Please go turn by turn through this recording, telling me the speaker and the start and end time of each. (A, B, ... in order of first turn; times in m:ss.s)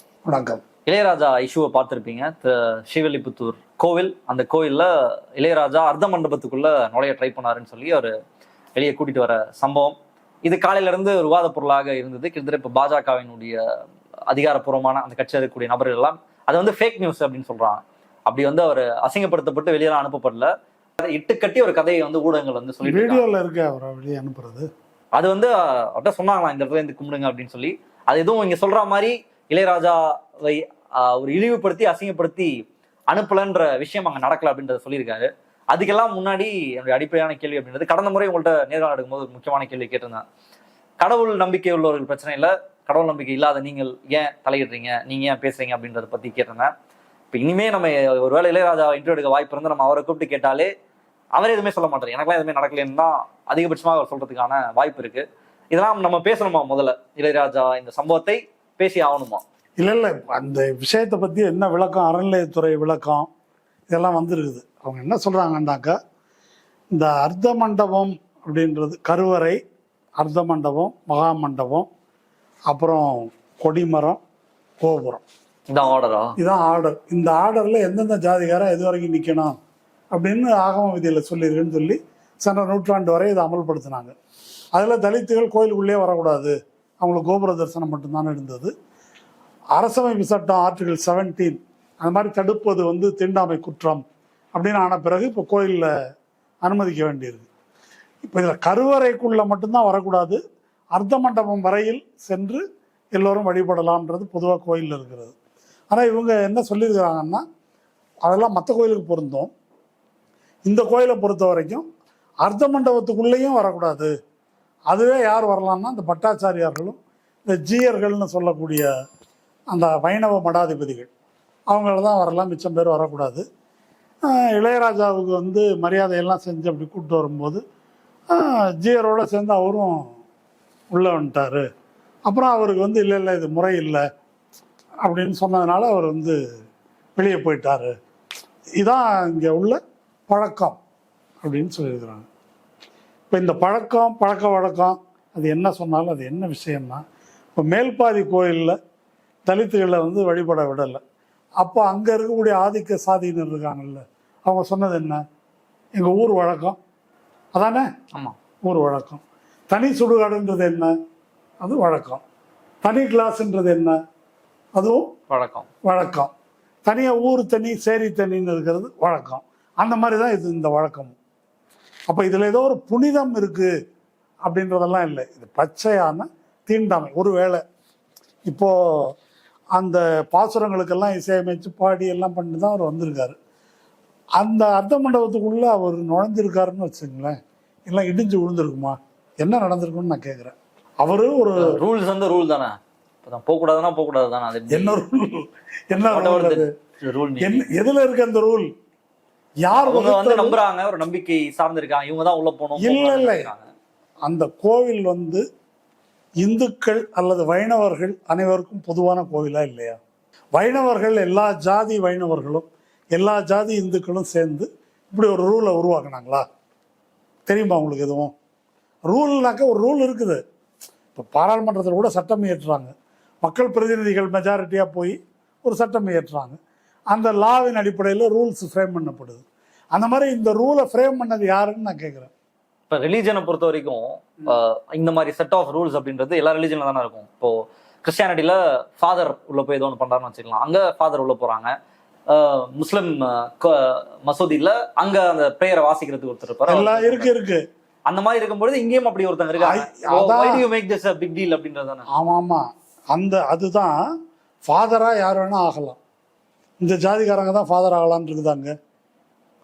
0:00.3-0:00.6 A
0:00.9-0:08.1 B
0:08.8-0:13.6 B
0:14.3-0:23.3 B
0:22.8-0:24.7 A
0:25.2-0:32.5 B
0:33.1-0:40.2 B
0:41.0-0:46.7 B
0:47.3-0:50.7 B
0:51.4-0:59.4 B
0:59.8-1:03.3 A
1:03.9-1:06.0 A
1:06.9-1:09.6 A
1:10.2-1:11.9 A
1:12.7-1:14.2 A
1:14.8-1:15.2 A
1:15.7-1:16.4 B
1:16.4-1:19.5 A
1:20.1-1:24.1 A
1:24.8-1:28.7 A
1:29.8-1:34.0 A
1:34.6-1:35.9 A
1:36.6-1:37.5 A
1:38.2-1:40.4 A
1:40.9-1:42.6 A
1:43.2-1:45.4 A
1:45.9-1:47.4 A
1:48.2-1:49.5 A
1:50.7-1:51.9 A
1:52.4-1:54.1 A
1:54.9-1:58.9 A
1:59.7-2:01.1 A
2:01.7-2:03.4 A
2:04.2-2:07.6 A
2:08.3-2:10.1 A
2:10.9-2:11.6 A
2:12.3-2:14.0 A
2:15.0-2:16.4 A
2:17.2-2:17.9 A
2:18.8-2:20.8 A
2:21.4-2:22.3 A
2:23.3-2:27.0 A
2:27.6-2:28.8 A
2:29.5-2:31.0 A
2:31.6-2:35.2 A
2:36.0-2:36.8 A
2:37.6-2:37.9 A
2:38.6-2:40.9 A
2:41.6-2:42.2 A
2:42.8-2:44.0 A
2:44.8-2:45.1 A
2:45.3-2:45.7 B
2:45.8-2:46.3 A
2:46.8-2:51.2 A
2:52.1-2:53.7 A
2:54.4-2:57.6 A
2:58.5-2:59.1 A
2:59.8-3:03.4 A
3:04.4-3:07.4 A
3:07.9-3:11.8 A
3:11.6-3:15.0 B
3:14.7-3:16.7 A
3:16.0-3:17.6 B
3:17.4-3:18.7 A
3:19.6-3:20.6 A
3:19.7-3:23.7 B
3:22.8-3:23.5 A
3:24.3-3:25.4 A
3:26.4-3:30.0 A
3:30.6-3:36.4 A
3:37.5-3:38.3 A
3:39.1-3:40.4 A
3:41.2-3:42.9 A
3:43.4-3:46.6 A
3:47.1-3:49.4 A
3:49.9-3:52.3 A
3:52.9-4:01.7 B
4:02.3-4:07.3 B
4:06.7-4:07.6 A
4:08.1-4:12.1 B
4:09.6-4:10.6 A
4:12.1-4:14.0 A
4:14.6-4:16.0 A
4:16.8-4:18.7 A